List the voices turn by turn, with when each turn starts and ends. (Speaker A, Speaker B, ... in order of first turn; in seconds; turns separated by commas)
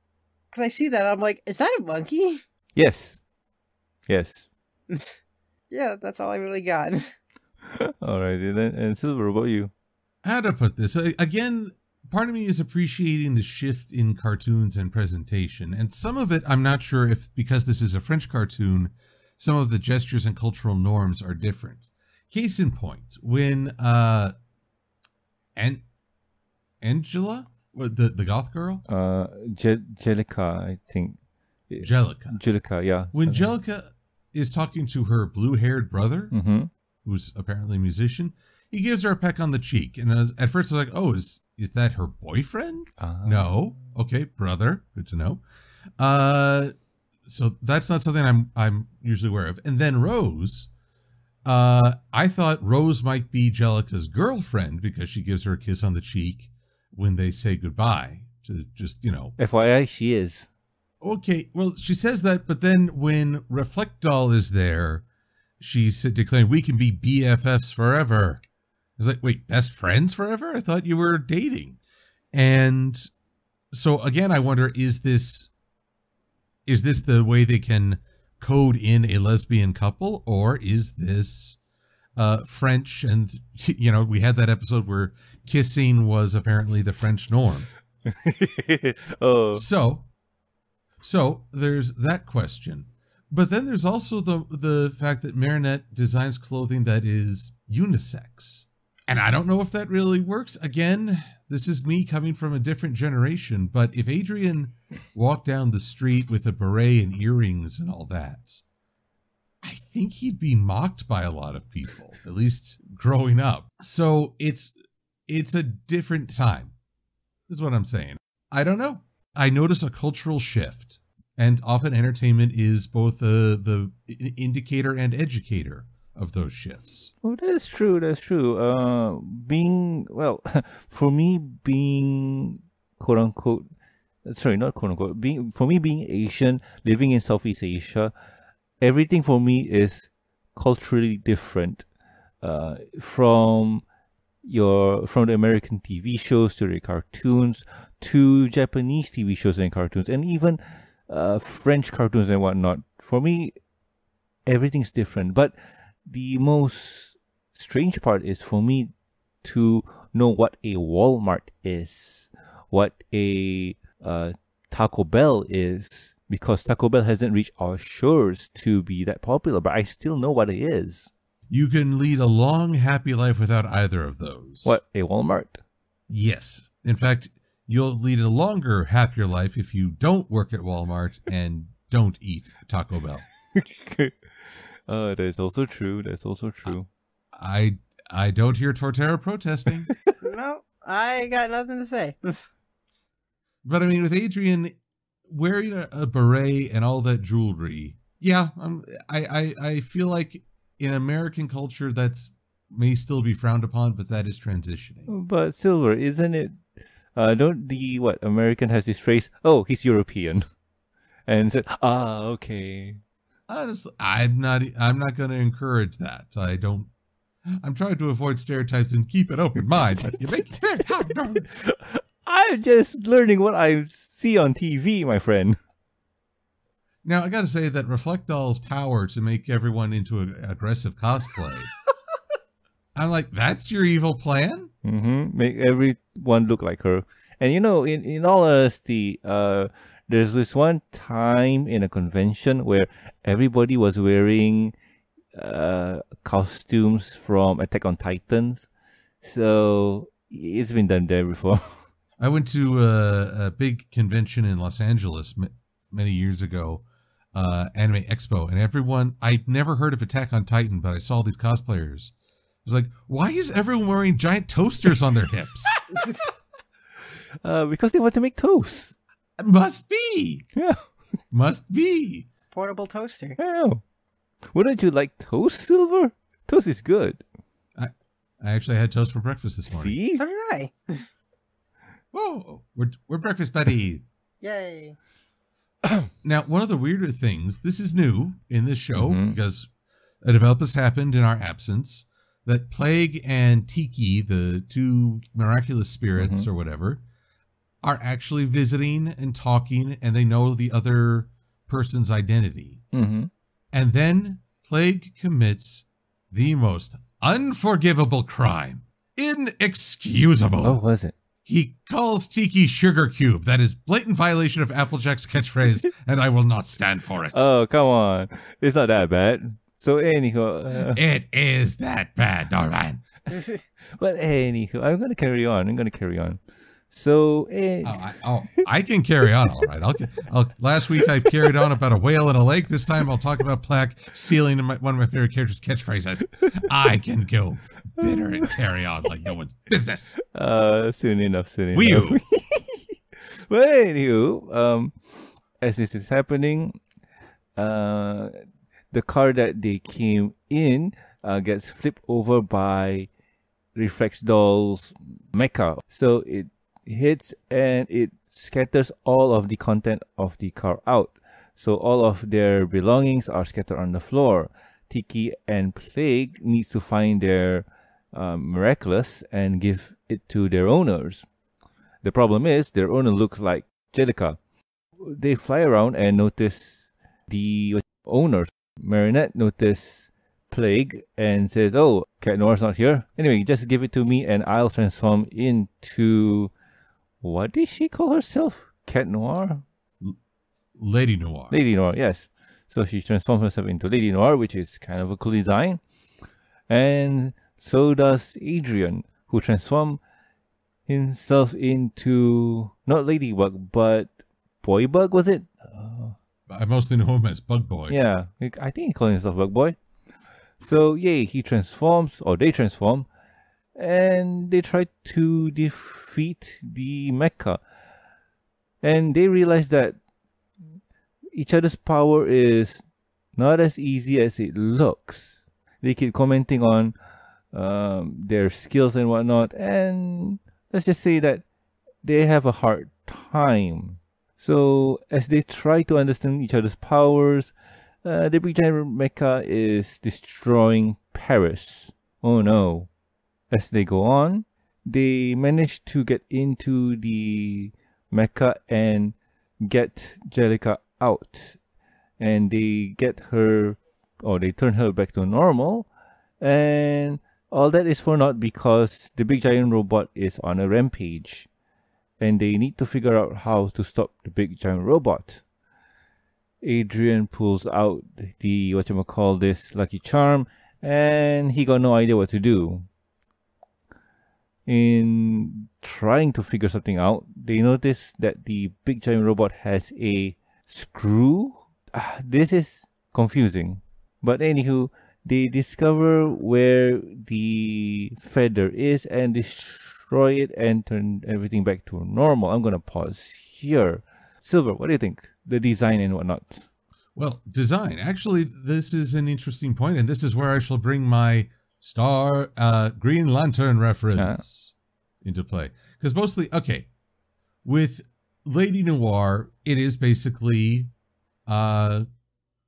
Speaker A: 0.5-2.4, Speaker B: 2.8-3.2, Speaker B: 4.1-4.5, Speaker A: 4.9-5.2, Speaker A: 5.7-7.2, Speaker B: 7.6-9.7, Speaker C: 10.2-24.4, Speaker C: 25.6-25.8, Speaker C: 26.8-28.9, Speaker B: 28.9-31.2, Speaker B: 31.7-33.5, Speaker C: 31.8-32.4, Speaker C: 33.1-36.3, Speaker B: 36.3-36.7, Speaker C: 37.0-45.4, Speaker B: 43.0-43.5, Speaker C: 46.0-46.7, Speaker C: 47.2-50.7, Speaker C: 51.4-59.3, Speaker B: 59.4-60.5, Speaker C: 61.0-65.0, Speaker C: 65.6-68.4, Speaker C: 69.0-71.8, Speaker C: 72.3-73.1, Speaker C: 73.7-75.5, Speaker C: 76.7-81.6, Speaker C: 82.2-87.7, Speaker B: 88.1-89.6, Speaker C: 89.5-90.1, Speaker C: 91.0-108.6, Speaker C: 109.6-114.7, Speaker C: 115.3-116.7, Speaker C: 117.5-127.1, Speaker B: 127.2-133.7, Speaker B: 134.2-138.1, Speaker B: 138.8-141.9, Speaker B: 142.4-143.8, Speaker B: 144.4-153.5, Speaker B: 154.5-155.5, Speaker B: 156.1-158.9, Speaker B: 159.4-171.1, Speaker C: 171.5-174.8, Speaker B: 174.6-175.6, Speaker C: 176.1-183.2, Speaker B: 183.5-184.1, Speaker B: 184.9-186.9, Speaker C: 187.3-189.9, Speaker B: 189.9-190.1, Speaker A: 190.2-192.5, Speaker C: 193.6-194.8, Speaker C: 195.3-205.1, Speaker B: 205.1-206.6, Speaker B: 207.2-210.4, Speaker B: 211.3-213.0, Speaker C: 213.5-216.9, Speaker C: 217.6-221.5, Speaker B: 219.8-220.5, Speaker B: 221.1-225.6, Speaker C: 227.0-231.7, Speaker C: 232.9-234.7, Speaker B: 234.8-244.7, Speaker B: 245.3-248.7, Speaker B: 249.2-251.9, Speaker C: 252.2-262.1, Speaker C: 262.6-265.7, Speaker B: 265.7-266.3, Speaker A: 265.9-266.3, Speaker B: 267.4-268.9, Speaker C: 269.4-270.4, Speaker B: 270.6-270.9, Speaker C: 271.3-272.3, Speaker A: 272.5-273.4, Speaker B: 273.4-273.8, Speaker B: 274.5-277.2, Speaker C: 277.8-280.0, Speaker B: 279.7-280.2, Speaker A: 280.1-281.1, Speaker C: 282.1-284.0, Speaker A: 284.4-285.0, Speaker C: 286.2-289.7, Speaker B: 288.9-289.4, Speaker C: 290.2-297.0, Speaker B: 296.2-296.5, Speaker C: 297.8-302.8, Speaker B: 302.9-303.3, Speaker C: 303.7-310.8, Speaker B: 310.6-311.1, Speaker C: 311.4-317.5, Speaker B: 317.3-321.0, Speaker C: 320.8-323.0, Speaker B: 323.9-328.0, Speaker C: 327.8-340.1, Speaker B: 338.1-338.6, Speaker B: 340.2-345.0, Speaker C: 341.7-342.2, Speaker B: 345.6-346.8, Speaker B: 347.6-348.4, Speaker B: 348.9-353.1, Speaker B: 353.7-371.2, Speaker B: 372.0-374.4, Speaker B: 375.0-386.5, Speaker B: 387.2-389.6, Speaker C: 390.7-391.6, Speaker B: 391.5-395.8, Speaker B: 396.7-400.0, Speaker B: 400.9-406.1, Speaker C: 406.5-407.9, Speaker B: 407.9-409.8, Speaker B: 410.6-413.1, Speaker B: 413.8-417.6, Speaker B: 418.8-420.0, Speaker B: 421.3-422.8, Speaker B: 423.4-426.9, Speaker B: 427.5-431.4, Speaker B: 432.0-437.5, Speaker B: 438.0-442.9, Speaker B: 443.5-451.6, Speaker B: 452.2-455.9, Speaker B: 456.4-461.5, Speaker B: 462.2-465.4, Speaker B: 466.6-472.9, Speaker B: 474.6-496.7, Speaker C: 497.1-506.9, Speaker B: 504.1-504.4, Speaker C: 507.6-510.9, Speaker C: 511.5-512.0